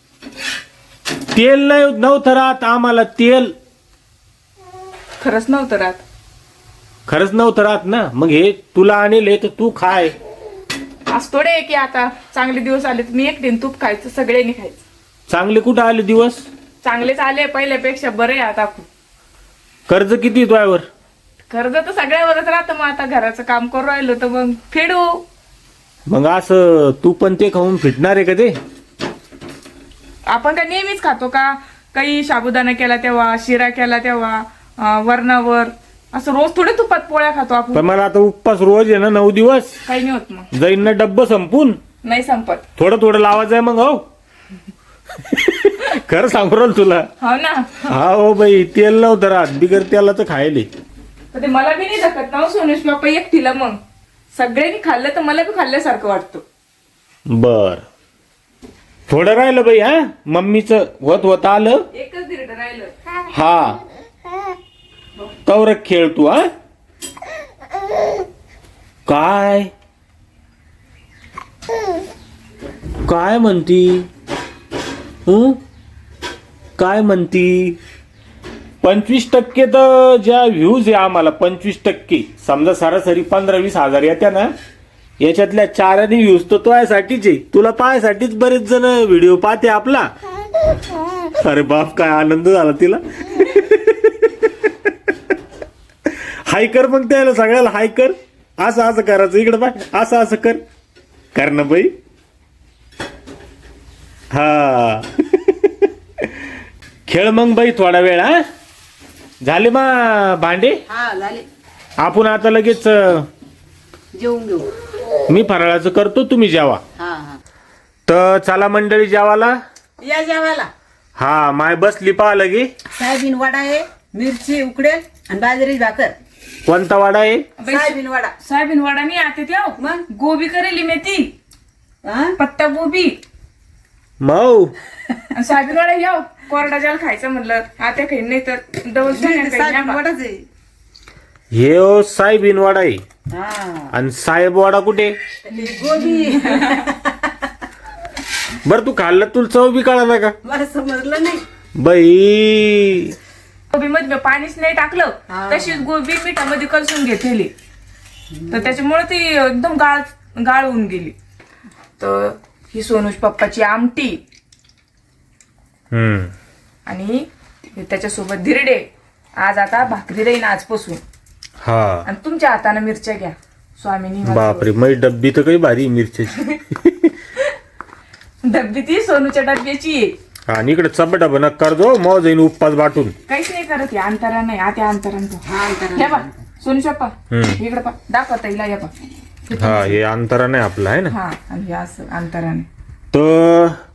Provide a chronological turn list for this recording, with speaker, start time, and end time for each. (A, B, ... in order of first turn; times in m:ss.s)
0:01.3-0:03.5 A
0:05.2-0:06.0 B
0:07.1-0:10.1 A
0:11.1-0:14.8 B
0:15.3-0:16.4 A
0:16.8-0:18.9 B
0:19.9-0:20.8 A
0:21.5-0:25.2 B
0:26.1-0:28.5 A
0:30.3-0:37.8 B
0:37.7-0:39.8 A
0:39.8-0:40.5 B
0:40.5-0:41.8 A
0:42.0-0:42.6 B
0:42.8-0:44.0 A
0:45.2-0:47.1 A
0:47.2-0:47.9 B
0:47.9-0:50.7 A
0:51.3-0:53.8 B
0:54.3-0:56.4 B
0:57.3-0:57.8 A
0:59.1-1:01.8 A
1:01.9-1:02.9 B
1:03.3-1:03.8 A
1:05.4-1:06.4 A
1:09.1-1:09.7 A
1:13.0-1:14.1 A
1:15.2-1:15.6 A
1:16.8-1:17.8 A
1:18.8-1:24.5 A
1:25.2-1:30.1 A
1:31.3-1:34.9 A
1:36.1-1:40.6 A
1:41.3-1:41.9 A
1:44.3-1:46.3 A
1:47.1-1:48.4 A
1:49.4-1:50.8 A
1:50.9-1:51.4 C
1:52.0-1:53.3 A
1:54.1-1:54.7 C
1:55.3-1:56.8 A
1:57.0-1:57.4 C
1:58.1-1:59.6 A
2:00.0-2:00.7 C
2:01.2-2:02.7 A
2:02.9-2:06.1 C
2:06.6-2:07.4 A
2:07.6-2:11.3 B
2:07.7-2:08.3 C
2:09.8-2:10.0 C
2:12.0-2:12.4 C
2:12.4-2:13.2 B
2:14.2-2:14.7 A
2:15.3-2:20.0 B
2:19.1-2:20.4 C
2:21.5-2:23.0 A
2:23.3-2:23.9 C
2:23.9-2:25.1 A
2:25.4-2:27.5 C
2:28.6-2:30.3 A
2:30.4-2:31.4 C
2:31.8-2:33.2 A
2:33.7-2:37.5 B
2:35.3-2:35.9 C
2:38.3-2:38.7 C
2:38.5-2:41.1 B
2:42.0-2:44.2 B
2:45.9-2:46.3 A
2:46.9-2:48.8 B
2:49.4-2:51.0 B
2:51.6-2:52.0 A
2:52.0-2:54.7 B
2:54.2-2:57.1 A
2:58.4-3:00.1 B
3:00.5-3:03.1 A
3:03.3-3:08.9 B
3:05.4-3:06.4 C
3:07.3-3:07.6 A
3:09.5-3:10.0 B
3:09.5-3:11.1 A
3:11.1-3:12.7 B
3:13.1-3:13.8 A